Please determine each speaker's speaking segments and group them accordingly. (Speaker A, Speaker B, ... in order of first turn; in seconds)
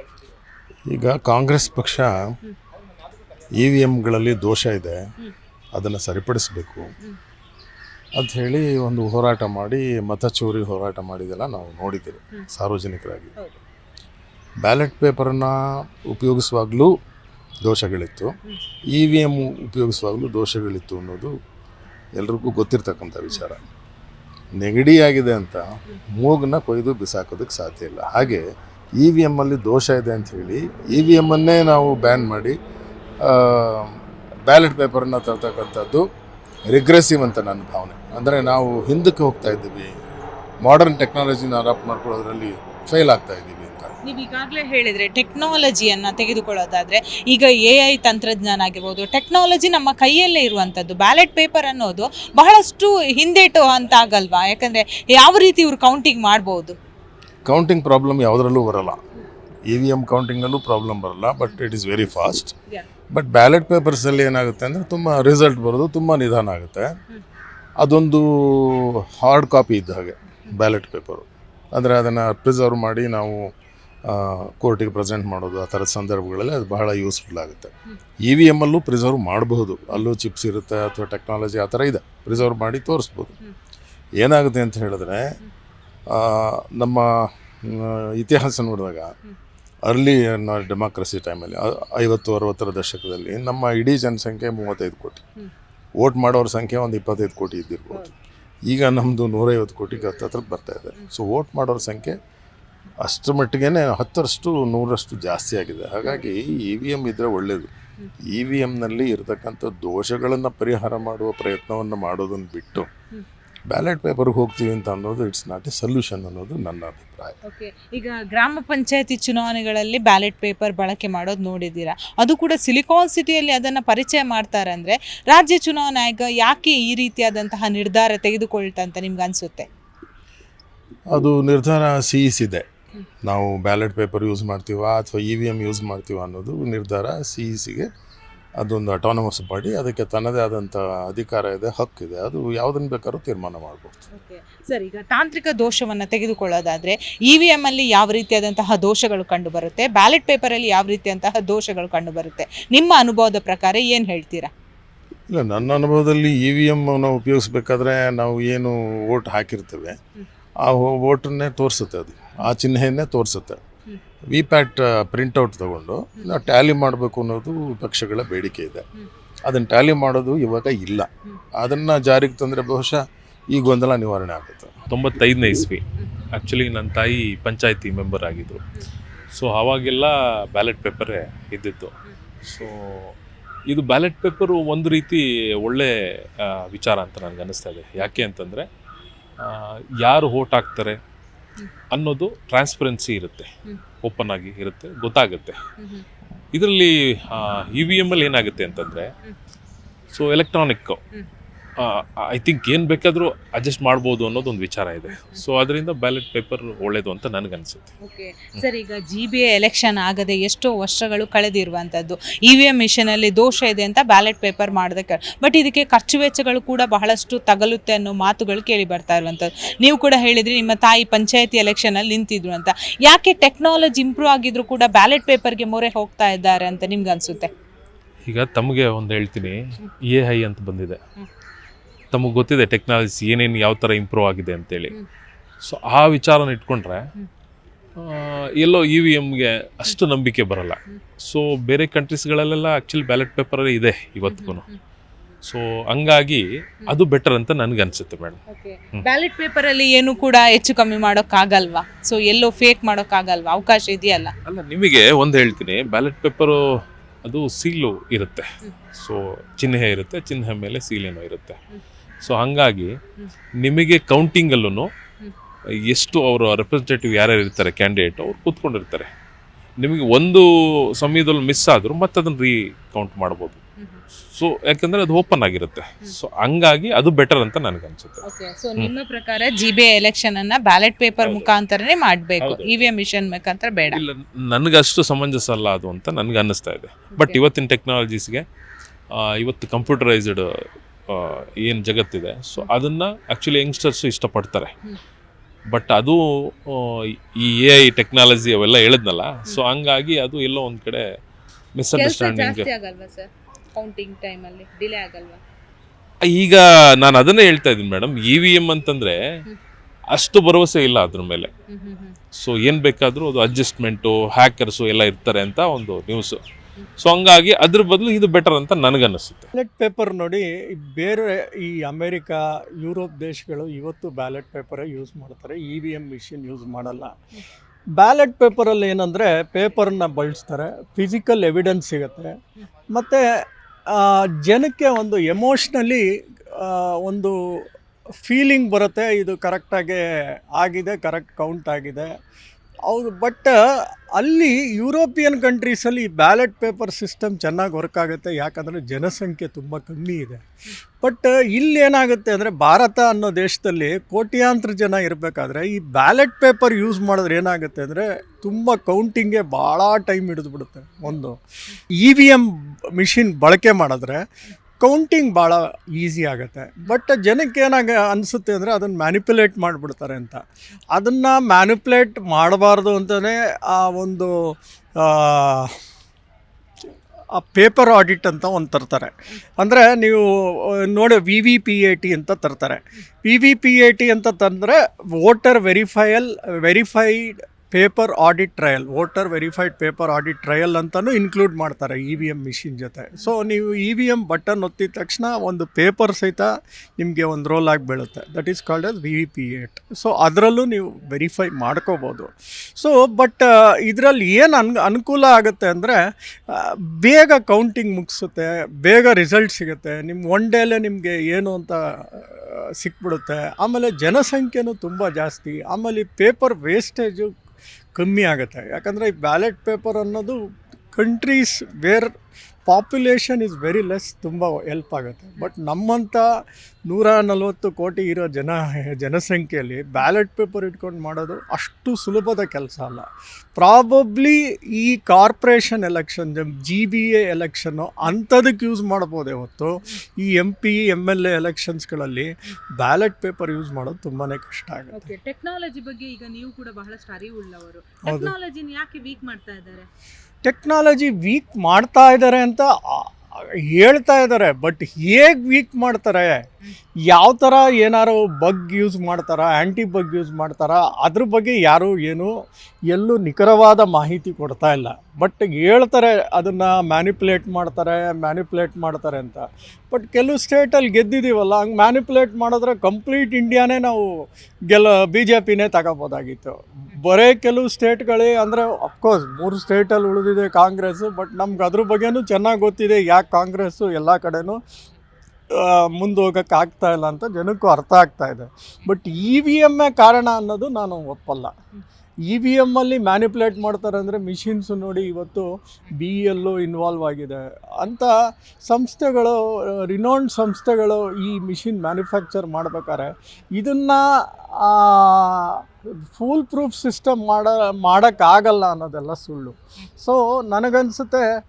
Speaker A: 0.9-2.1, 3.5-5.0, 5.7-6.9, 8.2-13.3, 14.6-16.9, 17.6-18.3, 18.9-21.3, 22.1-23.6, 24.6-32.6, 33.2-36.0, 36.7-39.9, 40.6-43.9, 57.4-59.0, 59.6-62.5, 63.1-66.9, 67.8-73.5, 74.0-83.3, 84.2-85.3, 86.1-87.0, 87.6-89.1, 89.8-95.2, 96.0-98.1, 98.7-102.2, 103.0-112.9, 113.7-117.4, 131.1-132.7, 133.2-137.9, 138.6-143.9, 155.3-160.0, 160.6-163.6, 164.3-168.8, 169.4-174.7
Speaker B: 44.0-56.8, 117.4-129.7, 144.1-154.5, 188.0-188.2, 195.8-196.0, 205.1-205.4, 208.0-227.5, 244.2-244.8, 248.5-254.3, 278.2-284.0, 287.1-287.4, 301.9-305.4, 311.7-312.2, 444.9-449.9
Speaker C: 174.9-175.8, 176.3-178.6, 179.3-181.9, 182.4-183.1, 183.7-188.7, 189.4-191.0, 191.9-193.5, 194.0-195.6, 196.5-199.1, 200.1-201.0, 201.8-207.9, 228.2-231.0, 232.1-234.9, 235.6-237.1, 238.0-244.6, 245.4-248.4, 254.5-261.6, 262.2-263.0, 263.6-264.9, 265.9-269.1, 269.8-273.6, 274.3-278.2, 281.2-281.5, 282.4-282.8, 283.9-288.4, 289.1-290.5, 291.1-294.7, 295.7-301.0, 301.8-302.7, 306.2-309.2, 310.1-311.5, 312.3-316.4, 317.0-319.5
Speaker D: 319.5-327.1, 328.0-332.4, 332.9-337.6, 338.2-342.2, 342.9-343.6, 344.1-350.4, 351.0-361.4, 362.0-364.2, 364.8-375.7, 377.3-380.2, 380.8-406.0, 406.5-417.4, 417.9-420.4, 420.9-422.1, 422.6-426.2, 426.9-445.1, 448.0-448.3, 450.4-456.4, 457.1-462.3, 462.9-484.6, 485.5-491.5, 492.3-498.1, 498.6-499.4, 499.9-504.0, 504.5-511.3